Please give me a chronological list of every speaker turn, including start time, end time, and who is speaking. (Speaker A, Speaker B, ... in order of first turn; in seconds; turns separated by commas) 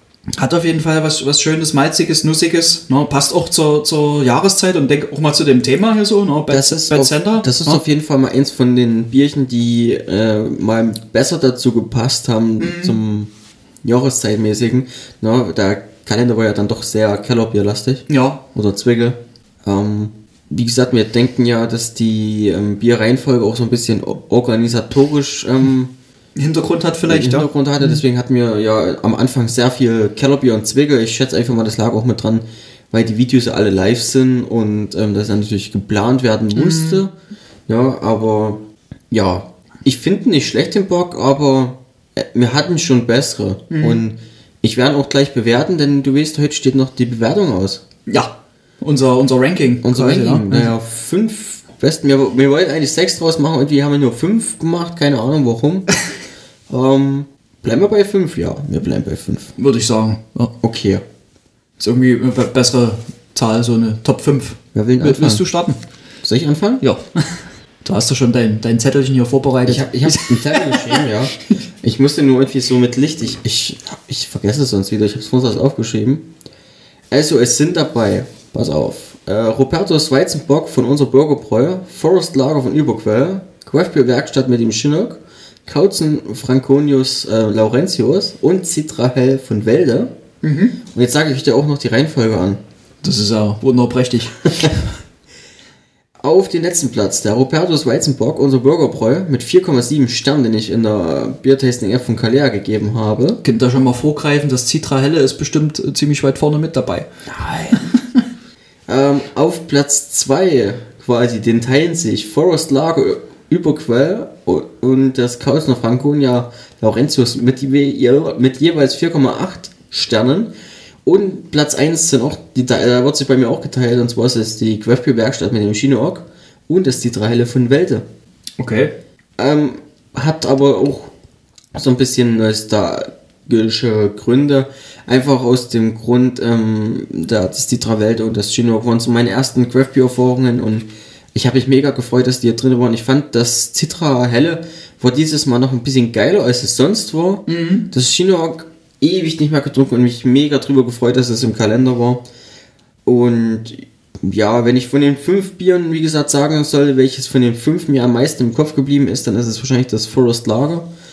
Speaker A: 0.4-7.8, Speaker B: 6.5-13.3, Speaker A: 12.6-13.0, Speaker B: 13.8-25.9, Speaker A: 18.1-18.4, Speaker A: 26.4-28.0, Speaker B: 27.1-37.1, Speaker A: 36.5-37.0, Speaker B: 37.7-47.8, Speaker A: 43.7-44.0, Speaker A: 48.1-50.7, Speaker B: 49.8-55.9, Speaker B: 56.7-59.5, Speaker A: 59.6-60.5, Speaker B: 60.6-61.0, Speaker A: 61.8-65.8, Speaker B: 64.7-65.4, Speaker B: 66.2-66.8, Speaker A: 66.8-71.0, Speaker B: 69.7-76.2, Speaker B: 77.1-90.1, Speaker A: 90.4-90.8, Speaker B: 90.9-92.6, Speaker A: 93.0-94.7, Speaker B: 96.2-103.4, Speaker A: 103.4-108.2, Speaker B: 107.4-107.8, Speaker B: 108.9-120.5, Speaker B: 121.0-128.0, Speaker A: 128.6-128.9, Speaker B: 129.4-131.1, Speaker B: 131.7-152.2, Speaker A: 147.5-147.9, Speaker B: 153.1-160.8